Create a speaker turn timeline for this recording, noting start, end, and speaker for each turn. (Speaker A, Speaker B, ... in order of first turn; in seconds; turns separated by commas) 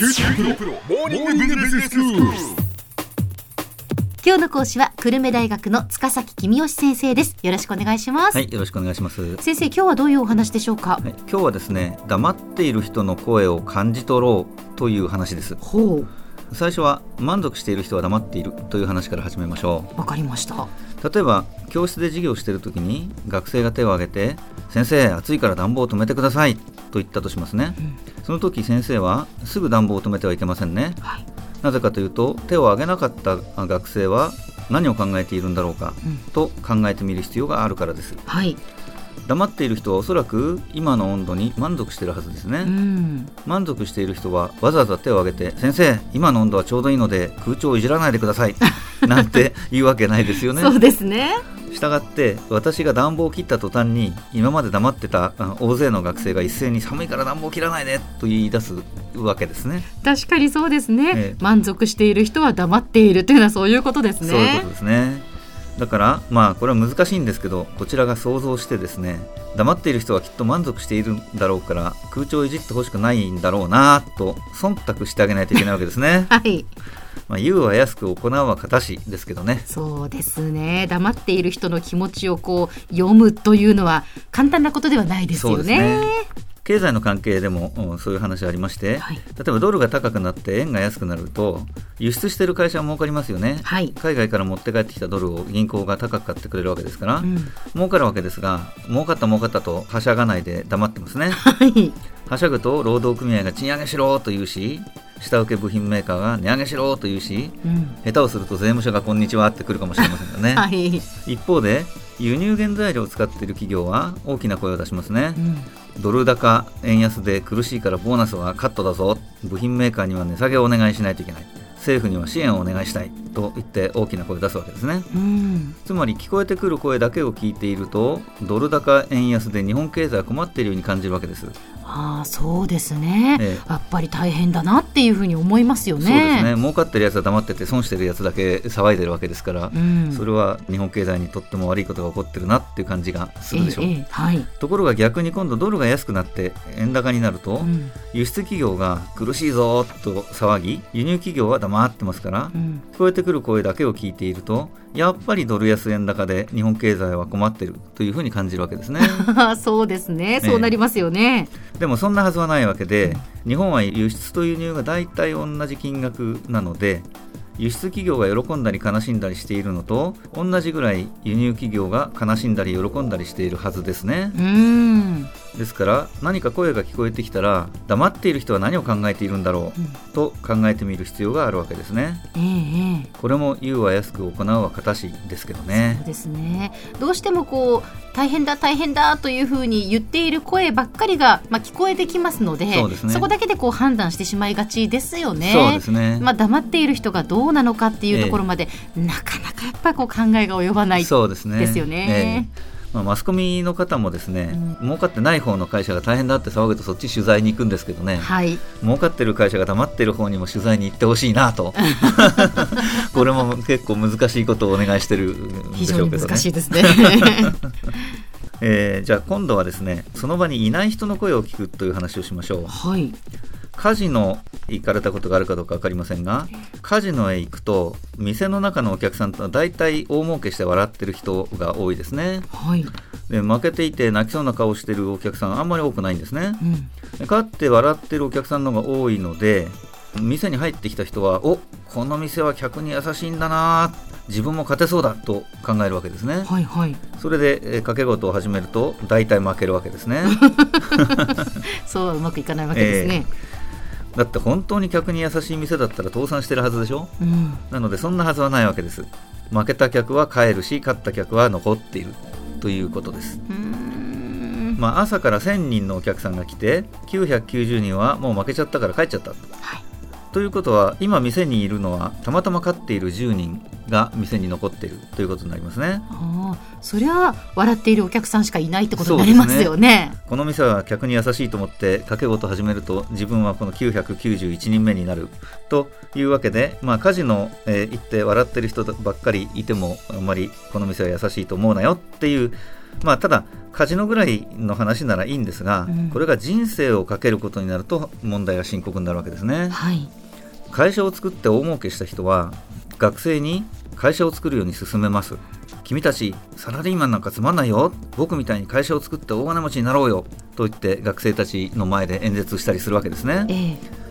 Speaker A: 0.1-2.5, Speaker B: 4.2-8.4, Speaker C: 8.3-9.4, Speaker B: 9.4-11.0, Speaker C: 11.0-15.6, Speaker B: 15.6-16.1, Speaker C: 16.5-19.9, Speaker B: 19.9-20.7, Speaker C: 21.0-31.0, Speaker C: 31.6-38.2, Speaker B: 38.3-38.6, Speaker C: 39.2-42.7, Speaker B: 42.6-43.3, Speaker C: 43.5-50.8, Speaker B: 48.8-49.1, Speaker B: 50.5-51.4, Speaker C: 51.7-59.9, Speaker B: 60.0-64.7, Speaker C: 61.1-61.4, Speaker C: 64.2-76.3, Speaker B: 76.3-76.7, Speaker C: 77.3-79.7, Speaker B: 79.7-86.3, Speaker C: 85.3-86.1, Speaker C: 86.7-101.4, Speaker B: 93.7-94.0, Speaker B: 97.2-97.5, Speaker B: 101.3-102.0, Speaker C: 102.3-110.7, Speaker B: 107.6-108.0, Speaker B: 110.0-111.1, Speaker C: 111.2-115.4, Speaker B: 115.4-115.7, Speaker C: 116.0-125.1, Speaker B: 125.1-125.8, Speaker C: 125.8-131.6, Speaker B: 131.8-136.5, Speaker C: 133.4-133.7, Speaker C: 136.0-143.9, Speaker B: 139.7-140.2, Speaker B: 143.5-144.5, Speaker C: 144.6-159.3, Speaker B: 147.6-147.9, Speaker B: 152.5-152.8, Speaker B: 159.0-161.5, Speaker C: 160.4-160.8, Speaker C: 161.7-174.4, Speaker B: 174.3-175.3, Speaker C: 175.5-182.2, Speaker B: 182.3-183.1, Speaker C: 183.2-186.0, Speaker B: 185.7-202.5, Speaker C: 192.7-193.3, Speaker C: 195.4-196.3, Speaker C: 198.1-198.4, Speaker C: 201.0-217.6, Speaker B: 208.2-208.6, Speaker B: 211.8-212.6, Speaker B: 215.7-217.6, Speaker C: 218.6-222.8, Speaker B: 222.7-223.2, Speaker C: 223.8-232.5, Speaker B: 232.5-232.9, Speaker C: 233.3-236.6, Speaker B: 236.6-236.9, Speaker C: 237.2-246.5, Speaker B: 246.5-247.0, Speaker C: 247.2-250.4, Speaker B: 250.2-253.3, Speaker C: 252.7-253.2, Speaker C: 254.2-257.1, Speaker B: 257.2-257.6, Speaker C: 257.7-263.4, Speaker B: 263.5-264.8, Speaker C: 264.8-269.4, Speaker C: 270.3-276.1, Speaker B: 276.1-280.2, Speaker C: 278.9-279.7, Speaker C: 280.2-299.8, Speaker B: 295.9-296.2, Speaker B: 299.7-300.1, Speaker C: 300.7-313.5, Speaker B: 313.5-313.8